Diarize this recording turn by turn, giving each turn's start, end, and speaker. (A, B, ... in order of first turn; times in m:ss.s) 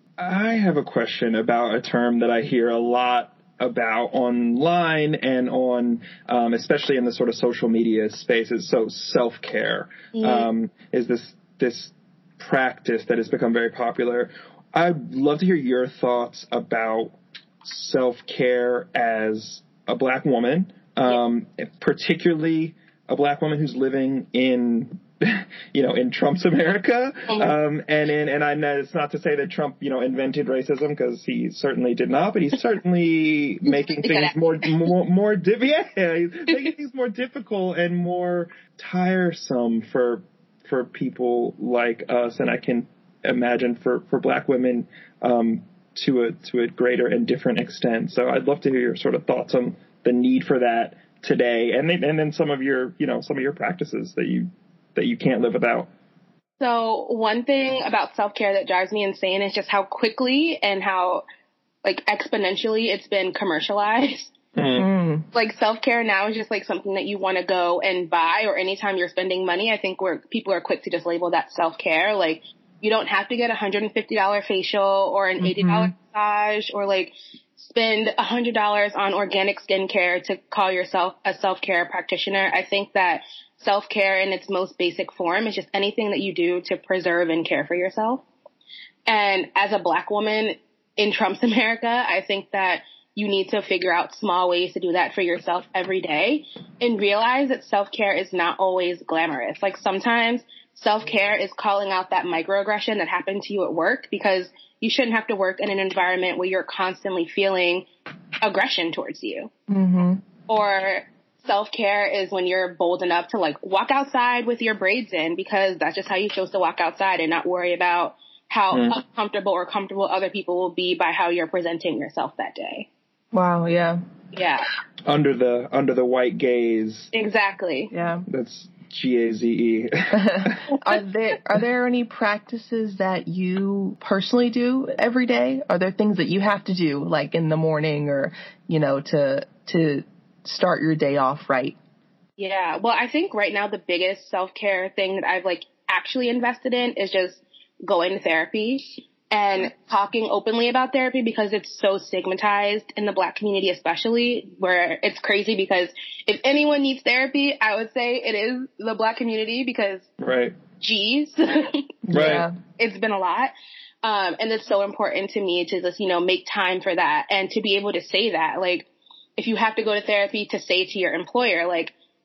0:00.2-0:17.1 A
0:10.1-0:10.5 B
0:17.6-0:55.9 A
0:27.3-0:27.5 B
0:33.7-0:34.9 B
0:56.6-1:01.2 B
1:01.8-1:04.3 B
1:04.6-1:04.9 A
1:04.8-1:05.2 C
1:05.3-1:28.2 B
1:15.4-1:15.9 C
1:29.1-1:47.9 B
1:48.4-1:49.5 B
1:49.7-1:50.2 C
1:50.5-2:02.9 B
1:58.7-1:59.0 A
2:03.3-2:04.0 C
2:04.3-2:04.7 B
2:05.0-2:07.1 A
2:07.1-2:07.9 B
2:07.9-2:08.3 C
2:08.3-2:10.6 A
2:10.1-2:21.8 C
2:22.4-2:40.1 B
2:40.2-2:40.6 A
2:40.8-2:41.9 B
2:42.1-2:42.5 C
2:42.1-2:42.4 A
2:42.8-2:51.9 B